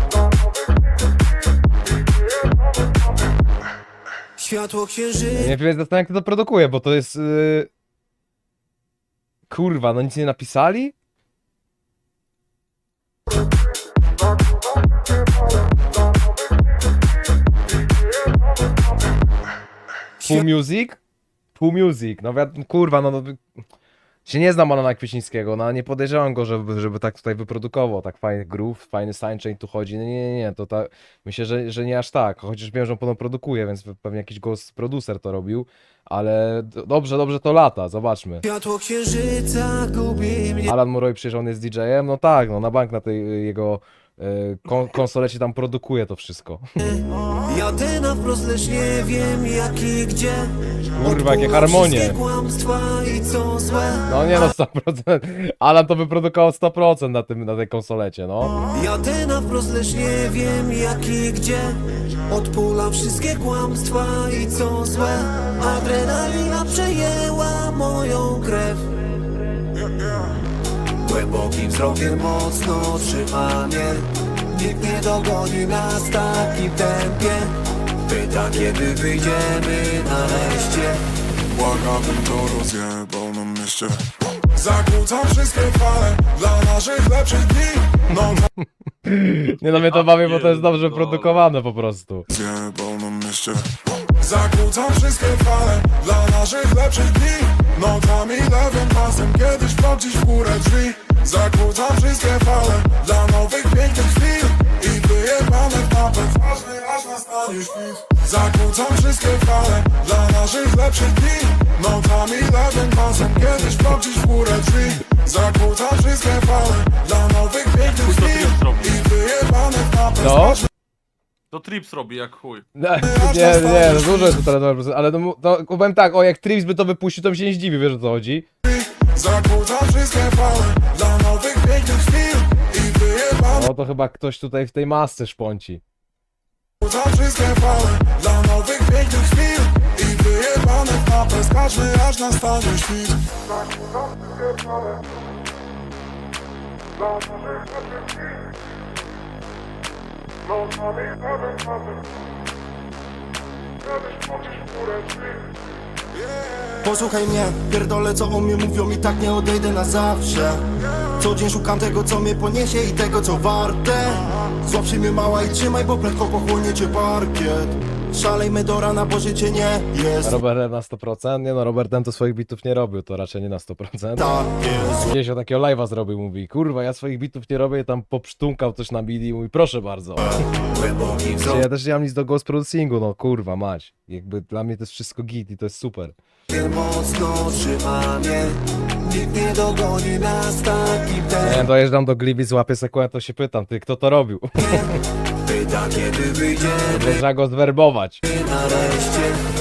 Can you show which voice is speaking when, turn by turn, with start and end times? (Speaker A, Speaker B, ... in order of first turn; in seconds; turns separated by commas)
Speaker A: 4.4-5.5, Speaker B: 5.3-7.7, Speaker B: 9.5-10.9, Speaker A: 20.2-20.5, Speaker B: 20.2-21.0, Speaker B: 21.6-23.4, Speaker B: 24.2-38.4, Speaker A: 38.4-40.7, Speaker B: 40.6-46.6, Speaker A: 46.8-54.1, Speaker B: 51.0-52.2, Speaker B: 54.1-58.5, Speaker A: 58.7-69.2, Speaker A: 71.0-81.0, Speaker C: 81.5-88.5, Speaker B: 88.6-92.2, Speaker D: 89.7-91.4, Speaker C: 92.3-120.7, Speaker D: 117.8-119.1, Speaker B: 120.2-120.6, Speaker D: 121.5-122.7, Speaker B: 122.7-128.4, Speaker C: 123.0-124.4, Speaker C: 128.6-133.7, Speaker B: 133.5-135.8, Speaker C: 136.8-143.3, Speaker C: 154.7-155.0, Speaker E: 156.8-170.3, Speaker B: 170.2-174.4, Speaker E: 174.2-175.1, Speaker B: 175.0-180.4, Speaker A: 180.7-181.6, Speaker B: 181.4-186.2, Speaker A: 186.5-191.7, Speaker B: 191.4-194.9, Speaker A: 194.6-197.2, Speaker B: 196.9-198.2, Speaker A: 198.2-199.4